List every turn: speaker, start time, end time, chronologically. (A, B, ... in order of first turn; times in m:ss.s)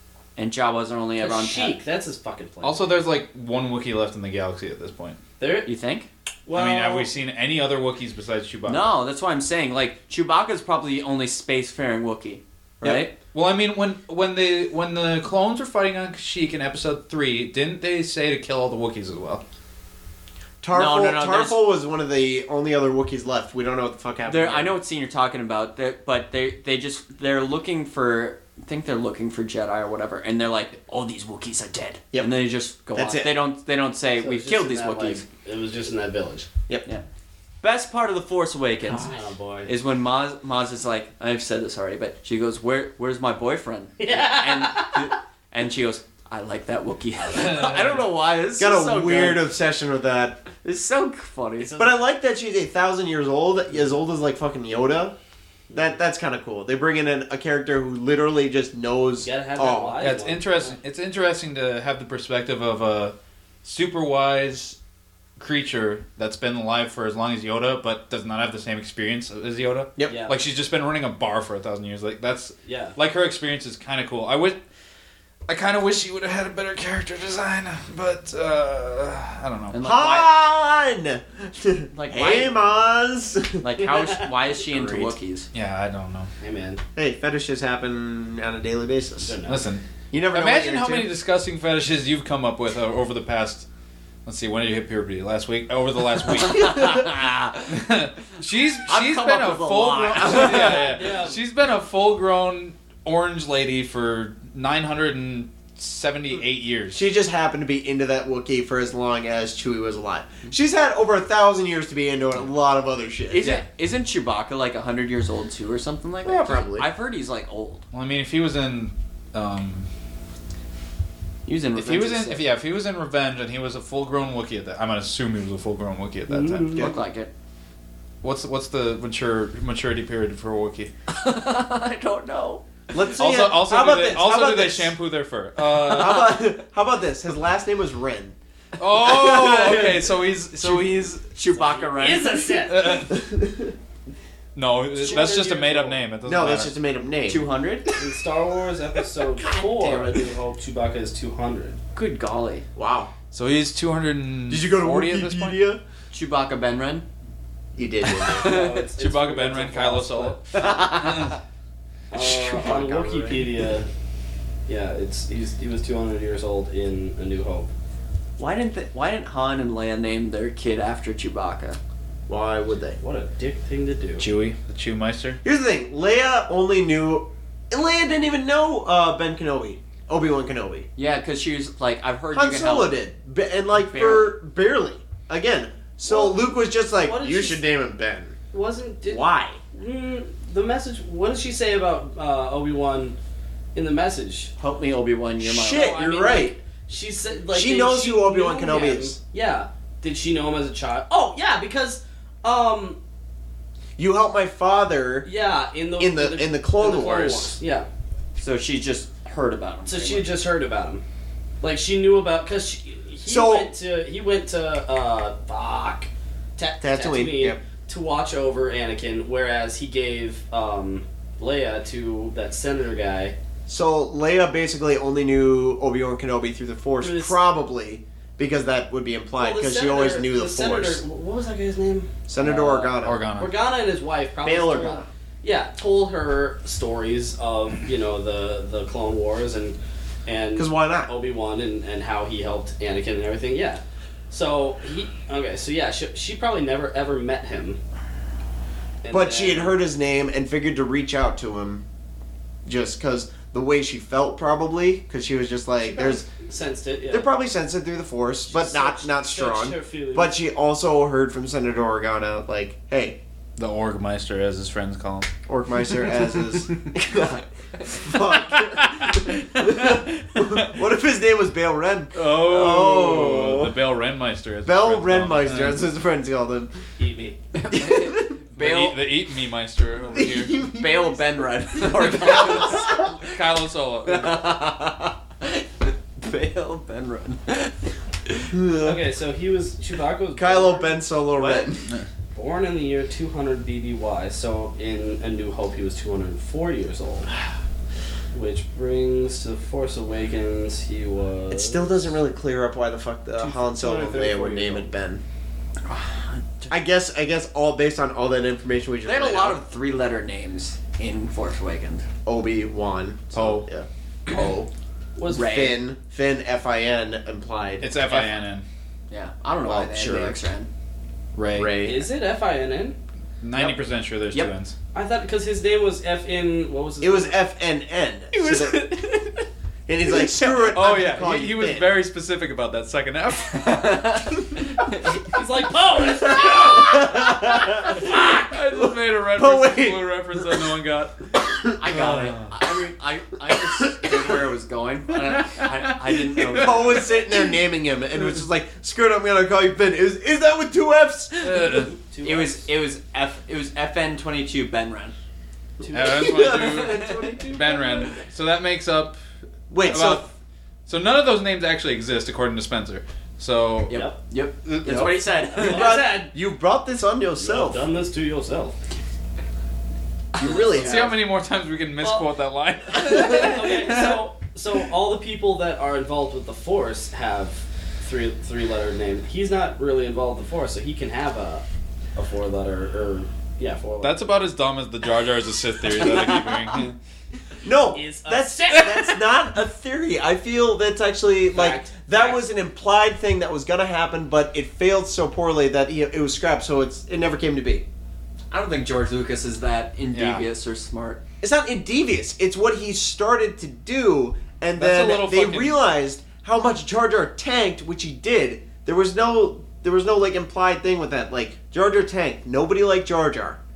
0:00.4-0:01.8 A
0:01.2-0:02.8 B
0:02.6-0:05.2 C
0:05.4-0:05.7 B
0:05.7-0:06.1 A
0:06.5-0:07.1 B
0:06.5-0:09.0 C
0:08.7-0:13.2 A
0:12.8-0:13.1 D
0:13.3-0:19.4 C
0:20.6-0:24.8 D
0:20.7-0:21.6 A
0:24.3-0:35.2 A
0:32.9-0:33.4 D
0:34.2-0:36.5 B
0:37.6-0:39.1 A
0:38.8-0:39.7 B
0:39.7-0:49.5 A
0:44.0-0:45.1 B
0:47.3-0:48.0 C
0:48.6-0:50.4 D
0:50.6-0:51.9 A
0:51.6-0:51.9 B
0:51.8-0:55.2 D
0:55.7-0:56.0 B
0:55.7-1:00.0 D
0:59.2-1:00.8 B
1:00.0-1:04.8 C
1:05.4-1:14.6 C
1:10.1-1:10.4 B
1:12.6-1:13.0 B
1:15.5-1:19.8 C
1:19.7-1:20.3 A
1:19.8-1:23.7 D
1:21.9-1:22.5 A
1:23.6-1:25.5 A
1:23.8-1:24.3 B
1:24.6-1:25.2 D
1:25.5-1:26.3 C
1:26.4-1:26.8 B
1:27.0-1:29.4 D
1:29.2-1:29.6 B
1:29.5-1:33.7 C
1:30.1-1:31.1 D
1:34.2-1:37.1 C
1:36.4-1:37.7 A
1:37.7-1:47.0 C
1:38.9-1:41.0 A
1:40.4-1:41.4 B
1:46.9-1:53.5 D
1:53.3-1:57.8 A
1:56.2-1:56.9 D
1:57.9-1:59.9 C
2:01.5-2:02.5 A
2:01.8-2:06.9 C
2:06.3-2:06.9 B
2:06.8-2:07.3 A
2:08.2-2:10.9 C
2:11.1-2:12.6 A
2:12.9-2:14.9 D
2:13.2-2:16.4 C
2:15.8-2:18.4 D
2:18.8-2:21.3 C
2:19.0-2:20.9 D
2:21.4-2:22.6 A
2:21.6-2:23.0 B
2:22.7-2:23.3 C
2:23.1-2:23.7 D
2:24.6-2:26.7 C
2:25.0-2:26.0 B
2:26.2-2:27.5 D
2:27.3-2:27.9 A
2:28.0-2:31.8 B
2:29.4-2:30.2 A
2:32.0-2:32.6 A
2:32.8-2:33.1 D
2:33.3-2:35.6 C
2:34.5-2:35.8 D
2:36.1-2:37.0 A
2:37.8-2:38.5 D
2:38.1-2:40.5 B
2:38.2-2:38.9 A
2:39.0-2:41.4 C
2:40.6-2:41.4 A
2:42.1-2:43.9 B
2:42.1-2:43.6 D
2:44.7-2:47.7 B
2:48.4-2:51.8 A
2:52.3-2:53.0 D
2:53.0-2:54.2 B
2:54.2-2:55.4 C
2:55.4-3:00.9 D
3:01.0-3:03.0 A
3:02.3-3:08.4 D
3:03.7-3:04.4 A
3:06.1-3:07.6 B
3:08.5-3:13.2 B
3:09.1-3:09.6 D
3:13.8-3:14.5 B
3:14.6-3:16.0 A
3:15.4-3:16.6 D
3:15.6-3:23.0 B
3:17.5-3:19.2 D
3:24.0-3:25.3 D
3:25.2-3:27.9 B
3:26.0-3:27.6 D
3:28.4-3:30.3 A
3:29.9-3:31.0 B
3:31.6-3:43.4 B
3:33.3-3:33.7 D
3:36.8-3:37.6 D
3:43.7-3:51.0 D
3:47.0-3:47.4 B
3:49.4-4:07.8 B
3:52.3-3:53.2 D
3:53.0-3:53.6 C
3:54.4-3:55.1 D
4:00.6-4:01.1 D
4:09.0-4:09.8 B
4:09.1-4:11.8 D
4:12.7-4:16.2 D
4:15.8-4:17.3 B
4:17.1-4:23.2 D
4:18.5-4:20.4 B
4:23.6-4:25.3 C
4:25.5-4:33.8 D
4:28.2-4:30.8 C
4:32.1-4:35.8 C
4:34.6-4:36.7 D
4:37.0-4:37.4 B
4:37.5-4:39.0 A
4:37.8-4:38.3 D
4:38.5-4:40.6 C
4:40.1-4:41.2 D
4:40.6-4:43.3 A
4:42.0-4:42.9 D
4:42.3-4:44.4 C
4:44.0-4:47.7 A
4:48.5-4:49.0 D
4:48.8-4:51.0 B
4:50.4-4:51.9 D
4:51.3-4:51.7 A
4:52.3-4:57.3 B
4:58.3-5:02.0 B
5:01.5-5:05.2 D
5:03.4-5:04.9 B
5:05.9-5:06.7 A
5:06.7-5:09.6 D
5:09.0-5:12.1 A
5:12.3-5:14.7 D
5:13.3-5:13.7 C
5:15.2-5:15.6 B
5:15.3-5:15.8 A
5:15.4-5:17.9 D
5:17.8-5:18.6 C
5:18.1-5:18.4 A
5:19.1-5:20.7 A
5:19.8-5:20.3 D
5:21.4-5:21.8 C
5:21.5-5:22.1 D
5:21.8-5:23.0 B
5:23.4-5:24.8 C
5:24.9-5:27.4 B
5:27.0-5:28.9 D
5:28.4-5:29.0 C
5:28.4-5:29.3 A
5:29.9-5:31.9 D
5:30.6-5:34.4 C
5:33.6-5:34.3 A
5:35.3-5:37.0 B
5:36.4-5:38.2 D
5:36.9-5:42.6 C
5:38.7-5:40.7 D
5:41.4-5:41.8 D
5:41.8-5:47.2 A
5:43.6-5:44.5 D
5:46.4-5:51.7 D
5:51.4-5:52.0 C
5:51.8-5:52.7 B
5:52.2-5:55.2 A
5:55.8-5:58.2 B
5:55.9-5:59.2 C
5:56.2-5:57.3 D
5:56.6-5:57.2 A
5:59.7-6:00.3 D
5:59.8-6:00.3 C
6:00.9-6:04.0 C
6:03.9-6:06.0 A
6:03.9-6:04.2 B
6:04.6-6:05.1 C
6:04.8-6:07.9 D
6:05.5-6:06.3 B
6:07.4-6:08.8 B
6:10.4-6:11.1 A
6:10.4-6:11.1 D
6:10.4-6:11.0 B
6:10.8-6:14.2 C
6:12.0-6:12.3 B
6:13.1-6:21.6 B
6:22.2-6:24.3 B
6:24.0-6:26.9 C
6:26.0-6:26.8 A
6:27.6-6:37.8 D
6:27.9-6:29.0 B
6:31.5-6:32.5 B
6:38.5-6:41.2 A
6:40.1-6:40.5 C
6:41.4-6:53.6 D
6:44.8-6:45.8 C